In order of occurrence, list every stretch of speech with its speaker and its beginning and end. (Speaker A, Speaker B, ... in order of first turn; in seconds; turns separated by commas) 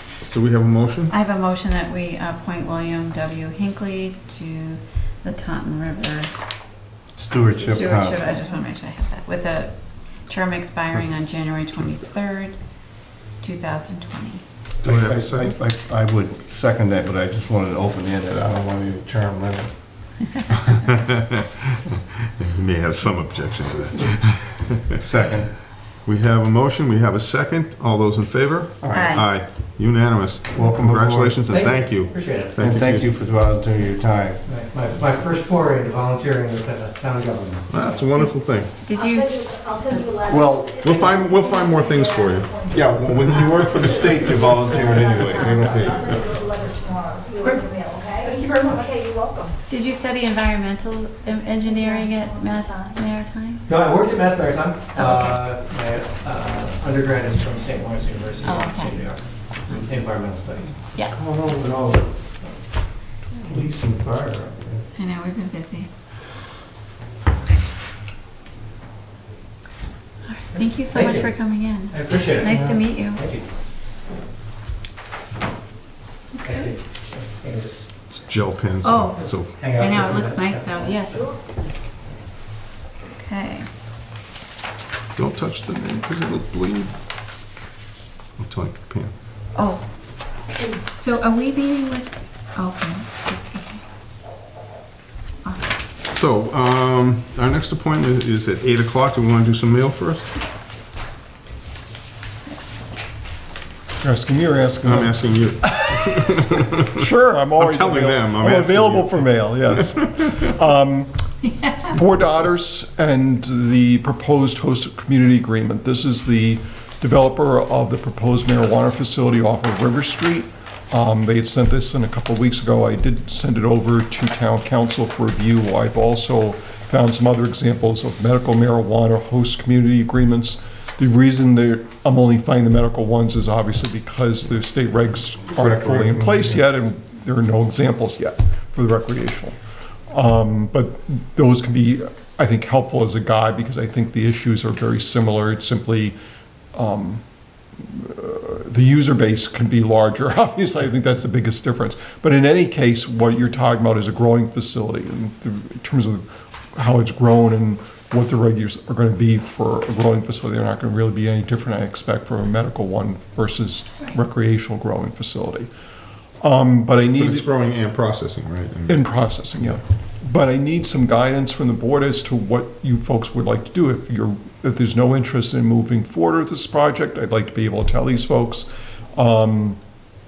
Speaker A: 0.2-1.1, Speaker B: 1.1-6.3, Speaker C: 7.1-8.2, Speaker B: 7.6-12.6, Speaker B: 13.4-14.4, Speaker A: 14.8-15.5, Speaker C: 14.8-19.7, Speaker A: 20.7-25.0, Speaker C: 24.9-25.5, Speaker A: 26.0-33.1, Speaker C: 28.8-29.2, Speaker B: 28.9-29.3, Speaker C: 30.5-31.4, Speaker D: 31.5-32.5, Speaker C: 32.6-34.4, Speaker D: 34.4-38.1, Speaker A: 37.7-38.8, Speaker B: 38.8-40.0, Speaker E: 38.9-49.5, Speaker C: 40.3-41.1, Speaker A: 40.8-46.2, Speaker C: 42.7-45.8, Speaker D: 47.4-47.7, Speaker D: 48.2-48.9, Speaker B: 49.7-53.6, Speaker E: 51.5-53.0, Speaker D: 53.6-60.8, Speaker B: 54.9-55.4, Speaker B: 58.4-59.0, Speaker C: 61.1-62.1, Speaker C: 63.4-64.8, Speaker B: 64.9-65.9, Speaker B: 70.3-73.2, Speaker D: 70.5-71.3, Speaker D: 71.9-73.4, Speaker B: 76.4-76.7, Speaker D: 76.4-77.9, Speaker A: 78.1-79.5, Speaker B: 78.8-81.3, Speaker D: 79.5-81.0, Speaker B: 83.1-83.7, Speaker A: 85.2-86.9, Speaker A: 88.4-89.1, Speaker B: 89.5-89.8, Speaker B: 90.9-93.8, Speaker B: 95.4-95.8, Speaker A: 96.1-100.3, Speaker F: 104.0-106.0, Speaker A: 104.8-106.9, Speaker F: 106.8-111.1, Speaker A: 107.6-110.4, Speaker F: 111.8-139.6, Speaker C: 135.5-136.6, Speaker F: 140.1-146.2, Speaker F: 146.7-147.2, Speaker F: 147.8-165.7, Speaker F: 166.4-167.5, Speaker A: 167.1-169.1, Speaker F: 168.9-179.8